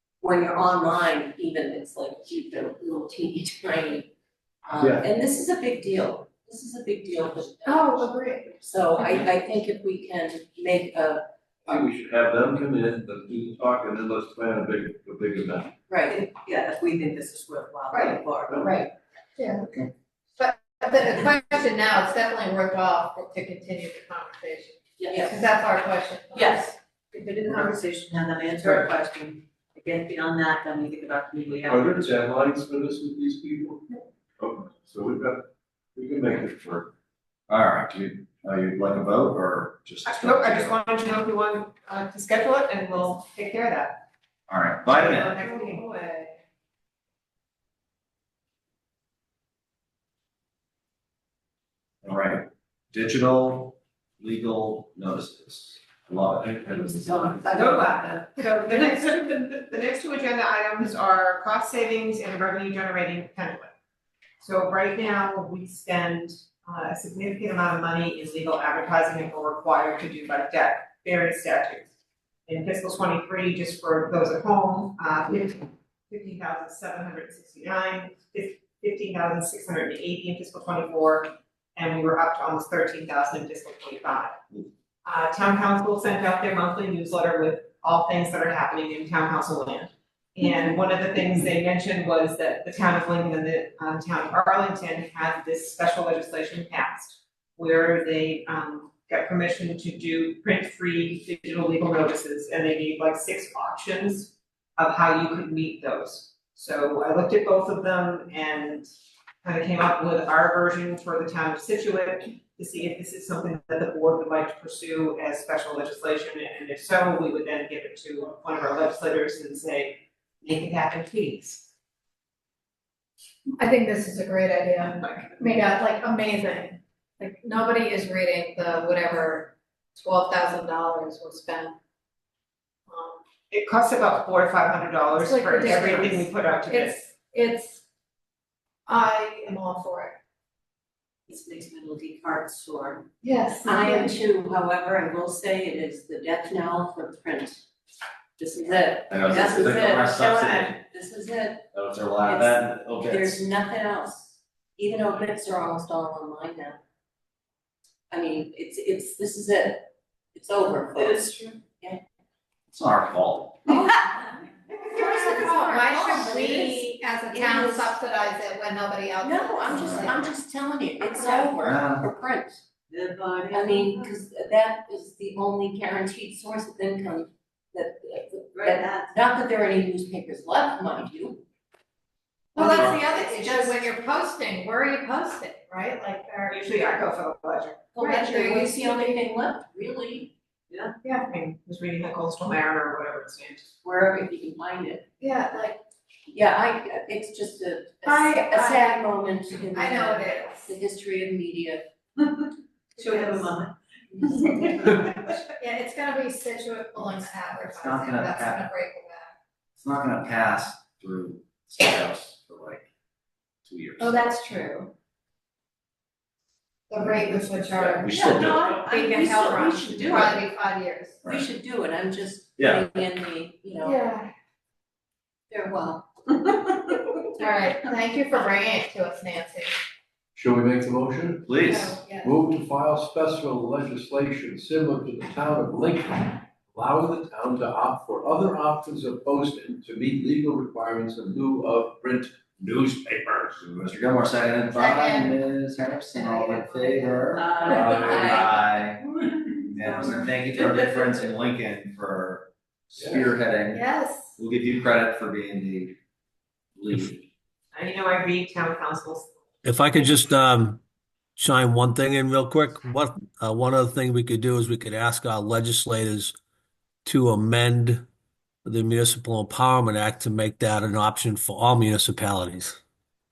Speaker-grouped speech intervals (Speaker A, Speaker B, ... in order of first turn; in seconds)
Speaker A: 0.2-4.1, 4.6-11.2, 15.9-16.2, 25.0-25.4, 141.3-143.1, 143.6-147.7, 148.4-151.7, 152.2-156.8, 158.1-162.0, 164.8-168.0, 169.2-172.6, 173.5-181.4, 182.6-183.9, 187.9-190.3, 193.8-195.1, 196.3-201.8, 218.1-220.4, 221.2-224.0, 225.5-226.9, 247.3-248.7
Speaker B: 4.8-5.1, 11.7-15.7, 18.5-18.8, 31.7-33.8, 34.4-36.9, 230.3-243.6, 247.6-248.5, 253.0-253.3
Speaker C: 7.7-8.5, 19.4-19.7, 20.4-26.7, 27.4-27.8, 123.6-131.8, 132.9-133.2, 135.2-137.8, 138.9-140.2, 143.2-144.1, 163.7-164.0, 164.9-170.3, 182.6-186.6, 188.0-189.2, 195.2-195.8, 198.1-199.0, 199.7-200.7, 203.0-203.4, 205.5-209.3, 214.0-214.9, 216.9-221.2, 223.8-224.3, 227.4-229.7, 231.6-232.4, 244.7-245.4, 246.2-247.8, 253.7-254.3
Speaker D: 16.1-18.9, 26.3-32.1, 56.7-58.0, 161.0-161.6, 171.1-171.5, 172.9-174.1, 178.5-179.1, 203.0-203.7, 204.2-204.6
Speaker E: 37.5-40.8, 44.5-45.4, 52.0-57.4, 149.1-150.8, 151.7-153.4, 162.7-163.7, 169.7-170.1, 171.6-172.1, 207.5-208.7, 209.8-212.8, 213.7-214.3, 217.8-218.7, 222.6-222.9, 231.5-232.0, 243.6-256.0, 256.8-257.2
Speaker F: 40.0-44.0, 44.9-45.9, 57.5-63.7, 64.4-71.9, 72.5-84.4, 85.0-108.9, 109.4-121.7, 133.5-137.0, 186.5-187.9, 191.2-193.7, 257.7-259.3
Speaker G: 259.6-260.8, 261.4-266.3, 267.0-268.0, 268.6-272.8